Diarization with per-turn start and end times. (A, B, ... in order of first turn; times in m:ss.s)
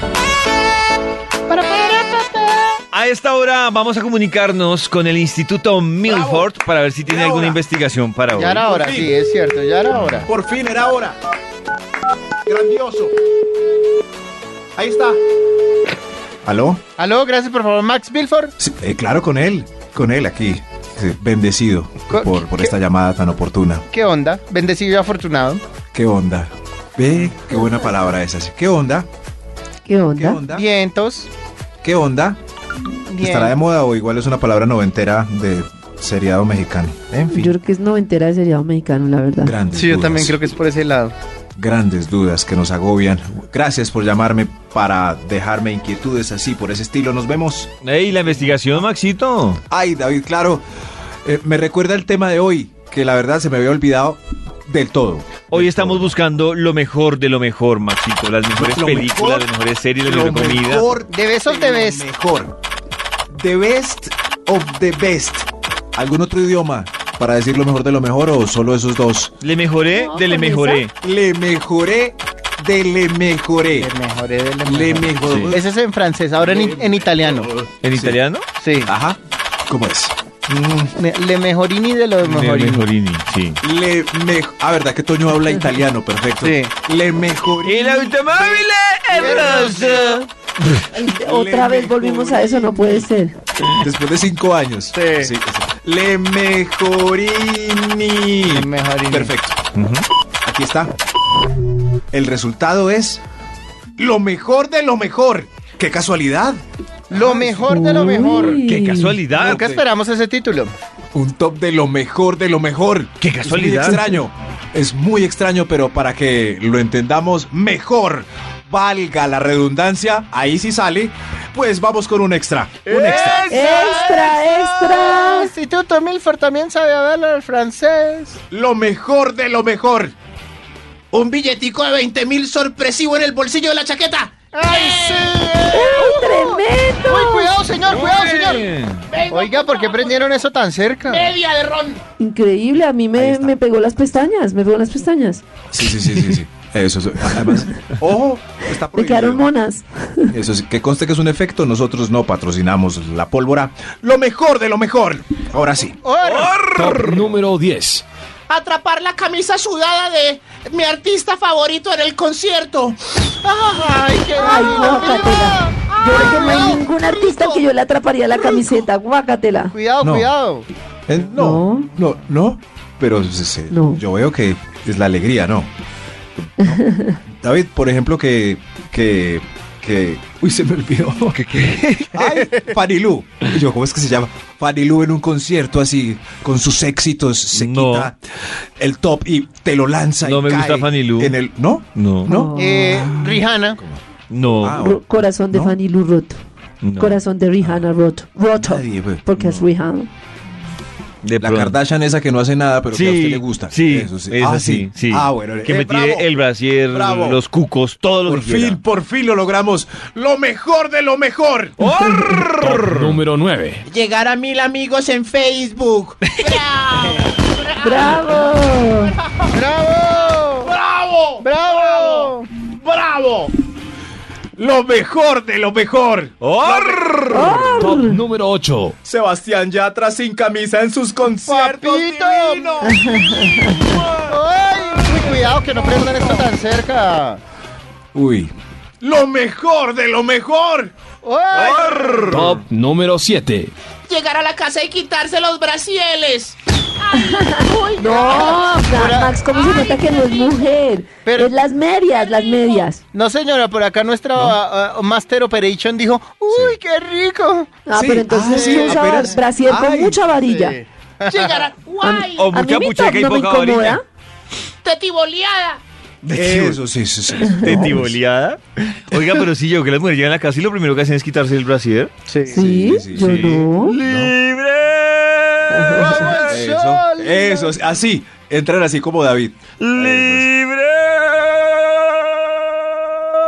0:01.5-0:02.8 A
0:02.9-0:08.7 B
0:06.0-0:06.5 C
0:07.1-0:07.6 C
0:08.3-0:10.3 A
0:08.6-0:09.1 C
0:10.2-0:11.2 C
0:12.5-0:13.1 C
0:14.8-0:15.2 C
0:16.4-0:16.8 C
0:17.0-0:18.5 A
0:18.6-0:23.8 C
0:22.1-0:22.7 A
0:23.9-0:25.6 A
0:25.9-0:29.1 C
0:29.8-0:30.4 D
0:30.2-0:30.7 C
0:30.5-0:31.3 A
0:31.8-0:32.4 C
0:33.1-0:33.5 A
0:33.2-0:37.5 C
0:37.3-0:39.5 D
0:39.4-0:40.4 C
0:39.7-0:41.1 A
0:41.6-0:48.7 C
0:47.8-0:49.6 B
0:49.7-0:50.6 C
0:51.2-0:56.2 C
0:55.5-1:00.9 B
0:58.6-0:59.5 C
1:00.0-1:02.5 C
1:01.1-1:02.1 A
1:03.4-1:09.3 C
1:09.4-1:10.9 B
1:09.9-1:10.9 D
1:11.0-1:13.9 C
1:13.7-1:17.6 A
1:14.6-1:15.6 C
1:15.3-1:15.6 B
1:17.8-1:18.5 B
1:17.9-1:18.2 C
1:18.6-1:18.9 A
1:18.8-1:20.9 C
1:21.0-1:22.8 A
1:22.2-1:23.6 B
1:23.6-1:28.2 C
1:26.4-1:26.7 A
1:27.6-1:30.3 B
1:28.3-1:30.3 A
1:29.3-1:29.6 C
1:30.9-1:33.4 D
1:31.0-1:33.1 C
1:33.8-1:40.9 C
1:35.0-1:35.3 A
1:38.5-1:39.3 A
1:42.1-1:43.2 C
1:44.0-1:48.1 C
1:47.1-1:48.6 A
1:47.7-1:49.2 D
1:48.5-1:49.6 B
1:49.4-1:49.8 C
1:49.4-1:50.7 A
1:51.1-2:03.5 C
1:53.2-1:54.0 B
2:02.9-2:04.6 B
2:02.9-2:08.4 A
2:03.5-2:05.5 D
2:08.5-2:10.1 C
2:11.1-2:15.4 E
2:14.5-2:18.7 A
2:15.7-2:17.5 D
2:17.9-2:19.1 B
2:19.1-2:20.3 E
2:19.3-2:21.4 A
2:21.1-2:22.0 E
2:22.2-2:25.4 D
2:23.2-2:23.6 C
2:25.7-2:29.5 C
2:28.9-2:30.3 D
2:30.3-2:36.0 C
2:36.0-2:36.6 A
2:36.2-2:37.4 B
2:36.7-2:38.0 F
2:38.5-2:43.2 E
2:43.5-2:45.8 A
2:44.4-2:44.8 E
2:44.4-2:49.7 D
2:45.9-2:46.9 E
2:46.3-2:46.8 A
2:48.4-2:48.7 A
2:49.7-2:50.7 A
2:50.0-2:50.3 C
2:51.1-2:55.7 C
2:51.3-2:51.9 D
2:53.7-2:54.0 D
2:56.6-3:01.4 C
2:56.6-2:57.2 D
3:01.3-3:02.4 B
3:02.1-3:08.2 C
3:07.5-3:08.1 B
3:08.8-3:14.0 C
3:10.2-3:11.4 B
3:12.0-3:12.3 B
3:12.3-3:13.1 D
3:12.6-3:13.8 A
3:14.3-3:14.8 B
3:14.6-3:15.8 C
3:14.8-3:16.4 D
3:16.8-3:17.2 B
3:17.0-3:20.1 D
3:18.6-3:19.6 C
3:21.2-3:21.8 B
3:21.4-3:26.3 C
3:22.9-3:28.8 B
3:26.9-3:27.4 C
3:28.3-3:31.8 C
3:31.8-3:33.2 B
3:32.1-3:32.4 D
3:32.6-3:33.8 F
3:33.9-3:38.2 E
3:37.1-3:37.4 A
3:37.8-3:39.2 D
3:39.5-3:40.7 A
3:40.8-3:41.3 E
3:40.9-3:41.4 C
3:41.4-3:42.5 A
3:42.8-3:43.5 E
3:42.9-3:43.4 C
3:44.6-3:47.7 C
3:46.4-3:47.6 B
3:47.3-3:48.2 D
3:47.8-3:49.0 F
3:49.0-3:53.2 C
3:51.5-3:52.8 A
3:52.8-3:54.0 D
3:54.3-3:57.4 A
3:58.1-4:00.9 C
4:01.2-4:02.4 A
4:01.5-4:02.7 B
4:02.3-4:03.7 F
4:04.1-4:08.6 E
4:07.1-4:13.0 D
4:07.6-4:09.5 A
4:09.5-4:10.5 E
4:11.3-4:11.6 A
4:13.1-4:17.8 A
4:16.5-4:16.8 C
4:17.9-4:20.8 D
4:17.9-4:20.2 C
4:18.4-4:19.4 A
4:20.4-4:21.7 A
4:21.3-4:22.5 E
4:22.0-4:24.0 D
4:22.4-4:24.0 B
4:24.8-4:25.8 E
4:26.2-4:26.8 B
4:26.3-4:28.2 C
4:27.4-4:32.1 B
4:32.3-4:32.6 A
4:32.5-4:34.0 D
4:32.5-4:34.4 C
4:33.2-4:36.6 B
4:35.7-4:36.2 D
4:35.8-4:37.8 A
4:36.5-4:40.5 C
4:39.8-4:43.4 B